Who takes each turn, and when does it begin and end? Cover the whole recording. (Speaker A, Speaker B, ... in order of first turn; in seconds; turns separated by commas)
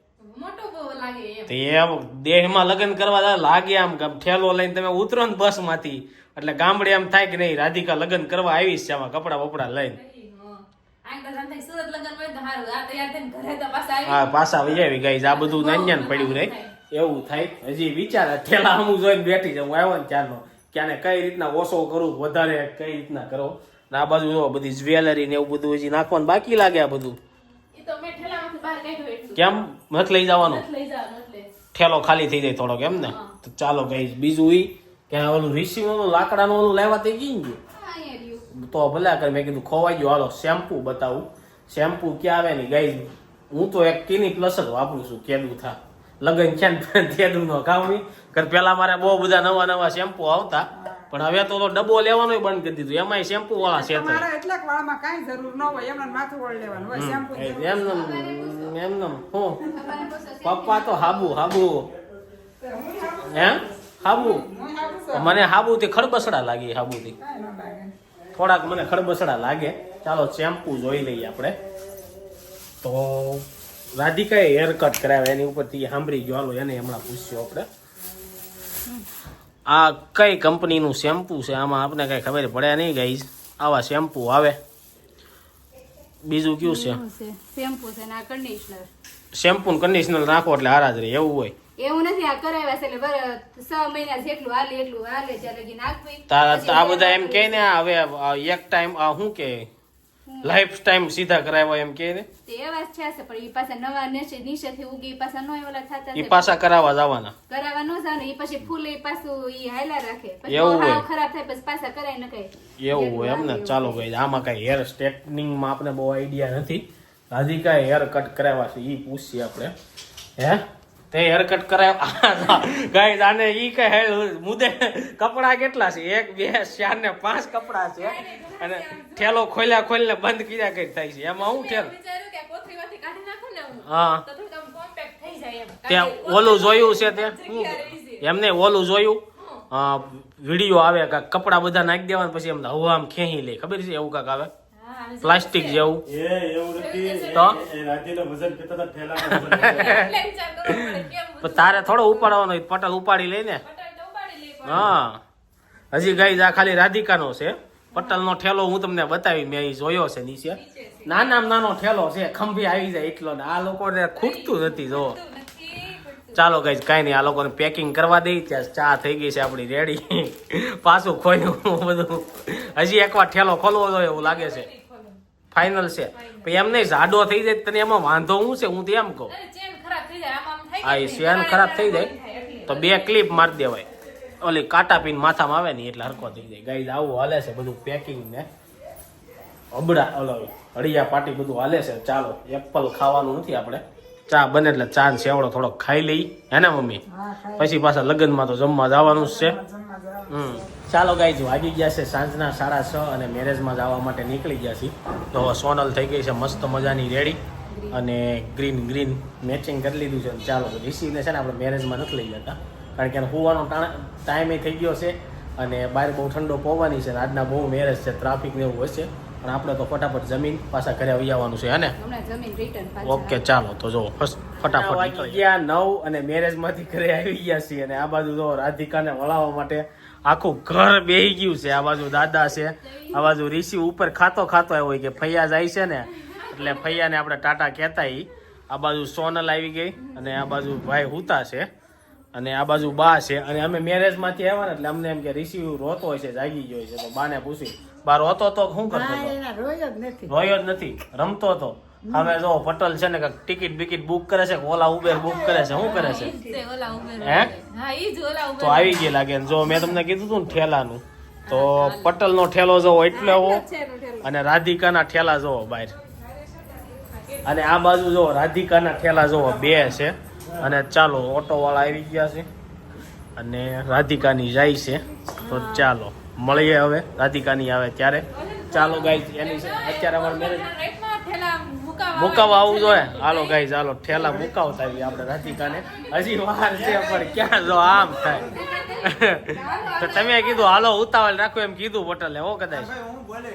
Speaker A: 0.2-1.5, Speaker B: 1.5-10.0, Speaker A: 9.9-16.7, Speaker B: 14.0-27.2, Speaker A: 27.7-29.5, Speaker B: 29.4-30.6, Speaker A: 30.4-31.5, Speaker B: 31.7-37.6, Speaker A: 32.9-33.3, Speaker C: 37.7-38.5, Speaker B: 38.5-54.2, Speaker D: 50.8-51.0, Speaker D: 53.6-58.2, Speaker B: 56.9-59.6, Speaker C: 58.0-58.8, Speaker C: 59.6-61.5, Speaker D: 59.7-60.0, Speaker B: 60.4-61.9, Speaker D: 62.6-65.4, Speaker B: 63.3-64.5, Speaker B: 65.1-67.1, Speaker D: 67.2-67.9, Speaker B: 68.3-71.5, Speaker B: 72.8-77.7, Speaker B: 79.7-84.6, Speaker B: 86.2-87.0, Speaker C: 86.6-88.9, Speaker B: 89.3-91.5, Speaker C: 91.8-97.7, Speaker B: 96.3-99.7, Speaker C: 100.3-100.6, Speaker B: 100.4-102.3, Speaker C: 102.5-106.6, Speaker B: 106.1-107.3, Speaker C: 107.5-114.0, Speaker B: 110.5-111.0, Speaker B: 112.8-119.7, Speaker B: 120.4-131.9, Speaker A: 128.0-129.6, Speaker A: 131.4-138.2, Speaker B: 133.8-134.2, Speaker B: 135.8-144.5, Speaker A: 139.4-139.6, Speaker A: 144.8-145.9, Speaker B: 145.2-146.0, Speaker E: 146.1-150.0, Speaker A: 146.7-147.6, Speaker B: 149.3-150.1, Speaker A: 149.5-152.3, Speaker B: 150.7-153.6, Speaker A: 153.6-154.9, Speaker B: 154.7-155.2, Speaker B: 155.9-165.2, Speaker A: 155.9-156.5, Speaker A: 157.9-158.2, Speaker A: 160.5-161.4, Speaker A: 164.1-166.6, Speaker B: 166.3-174.7, Speaker A: 174.1-175.2, Speaker B: 175.5-179.3, Speaker A: 176.1-176.6, Speaker A: 179.3-183.4, Speaker B: 180.8-182.1, Speaker B: 182.7-183.9, Speaker B: 184.4-188.4, Speaker B: 189.7-197.0, Speaker D: 197.1-197.8, Speaker B: 197.6-199.6, Speaker D: 199.0-200.7, Speaker B: 200.3-207.4, Speaker C: 207.7-208.0, Speaker B: 207.9-221.9, Speaker C: 222.0-223.4, Speaker B: 223.0-241.7, Speaker A: 232.8-233.2, Speaker A: 236.2-237.0, Speaker B: 242.3-249.4, Speaker D: 248.9-250.3, Speaker B: 250.3-256.3, Speaker D: 252.1-252.3, Speaker D: 255.1-256.5, Speaker A: 255.8-259.9, Speaker B: 257.2-257.5, Speaker B: 258.6-263.6, Speaker A: 261.4-262.1, Speaker A: 263.1-264.3, Speaker B: 264.2-265.9, Speaker A: 266.1-267.8, Speaker B: 267.4-272.5, Speaker B: 273.4-280.6, Speaker A: 275.4-275.9, Speaker A: 278.3-283.6, Speaker B: 282.1-288.5, Speaker A: 285.6-286.3, Speaker A: 288.2-290.7, Speaker C: 288.5-290.3, Speaker B: 289.0-292.9